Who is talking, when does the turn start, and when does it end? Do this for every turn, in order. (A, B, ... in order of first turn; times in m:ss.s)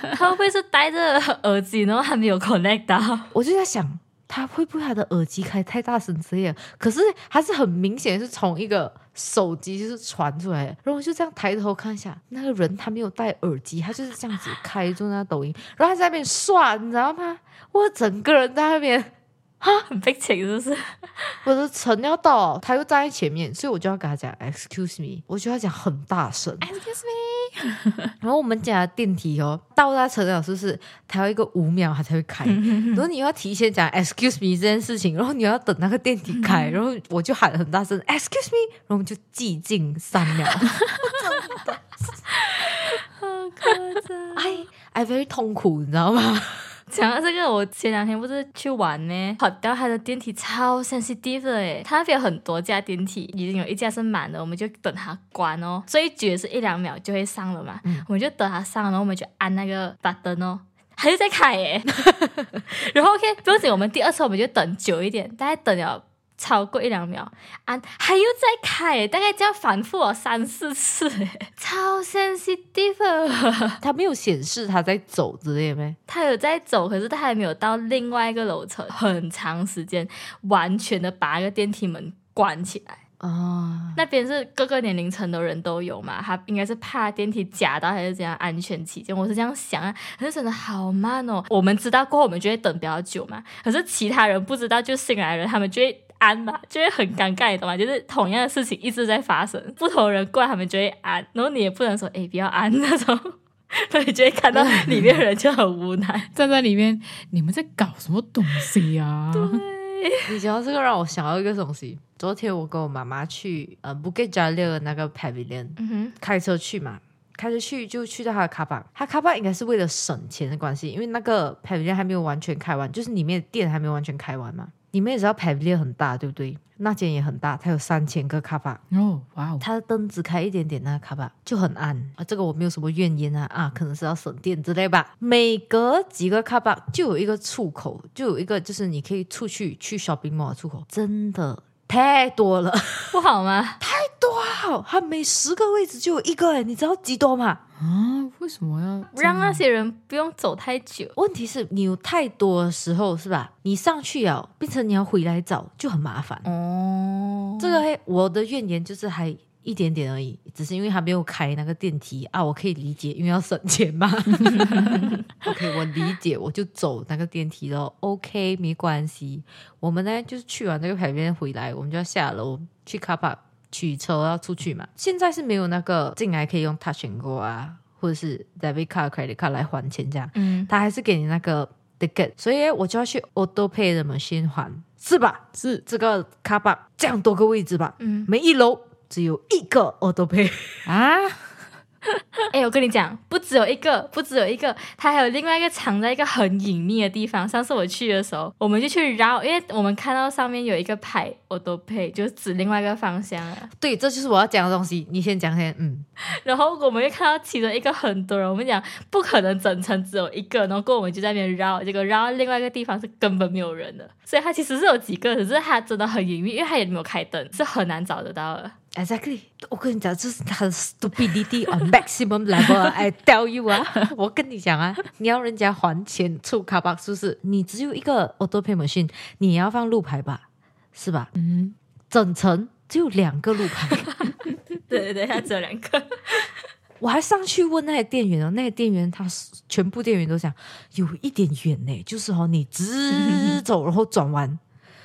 0:00.1-0:03.3 A
0:03.3-0:19.9 B
0:19.9-0:21.4 A
0:21.4-0:26.7 B
0:26.6-0:28.1 C
0:28.2-0:42.2 B
0:32.5-0:33.0 A
0:36.3-0:36.8 A
0:42.3-0:44.6 A
0:44.4-0:46.8 B
0:46.9-1:02.0 A
1:02.6-1:13.8 A
1:13.8-1:16.0 B
1:16.1-1:23.0 A
1:23.2-1:24.0 B
1:24.0-1:46.3 A
1:44.5-1:45.1 B
1:46.4-1:49.6 C
1:49.3-1:50.3 A
1:50.3-2:08.8 B
1:55.8-1:56.2 A
2:08.9-2:09.7 C
2:09.6-2:23.2 B
2:23.1-2:23.8 A
2:23.8-2:27.6 B
2:27.8-2:29.6 C
2:29.2-2:31.2 A
2:31.2-2:36.5 B
2:36.4-2:37.8 A
2:37.6-3:10.9 B
2:44.6-2:45.2 A
3:00.4-3:00.7 A
3:05.6-3:05.8 C
3:08.0-3:08.3 A
3:10.9-3:11.7 C
3:12.5-3:23.7 A
3:23.8-3:26.1 B
3:26.2-3:38.8 A
3:38.9-3:50.4 B
3:50.9-3:51.3 B
3:51.4-3:51.8 C
3:52.1-3:54.2 B
3:54.9-3:56.5 A
3:57.0-4:04.6 B
4:03.3-4:03.5 A